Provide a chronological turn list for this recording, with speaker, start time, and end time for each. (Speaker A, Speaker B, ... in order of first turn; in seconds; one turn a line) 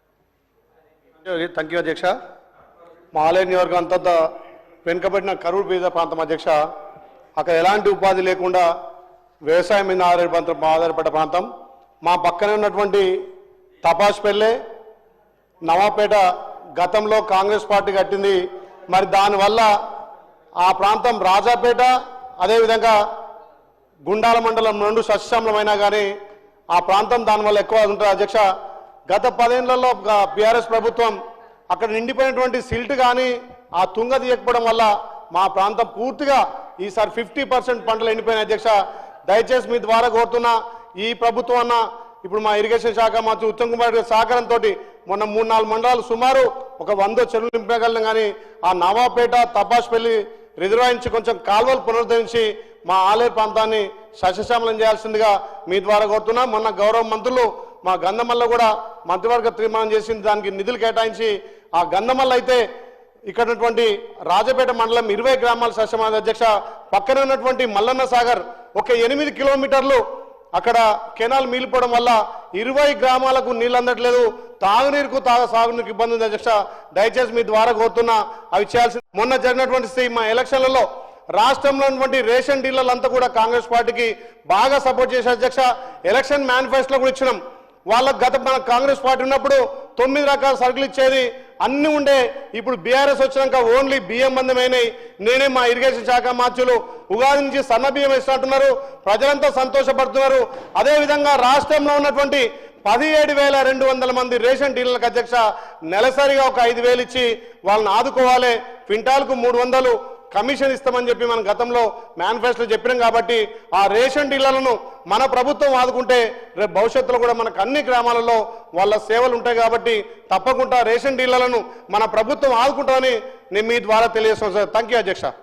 Speaker A: 1.2-2.1
Speaker A: 3.1-4.2
Speaker A: 4.8-6.5
Speaker A: 7.4-8.7
Speaker A: 9.5-11.5
Speaker A: 12.0-13.1
Speaker A: 13.8-14.6
Speaker A: 15.7-16.2
Speaker A: 16.8-19.7
Speaker A: 20.6-22.9
Speaker A: 24.1-26.1
Speaker A: 26.7-28.4
Speaker A: 29.1-31.1
Speaker A: 31.7-38.8
Speaker A: 39.3-62.6
Speaker A: 63.3-70.0
Speaker A: 70.5-87.4
Speaker A: 87.9-125.3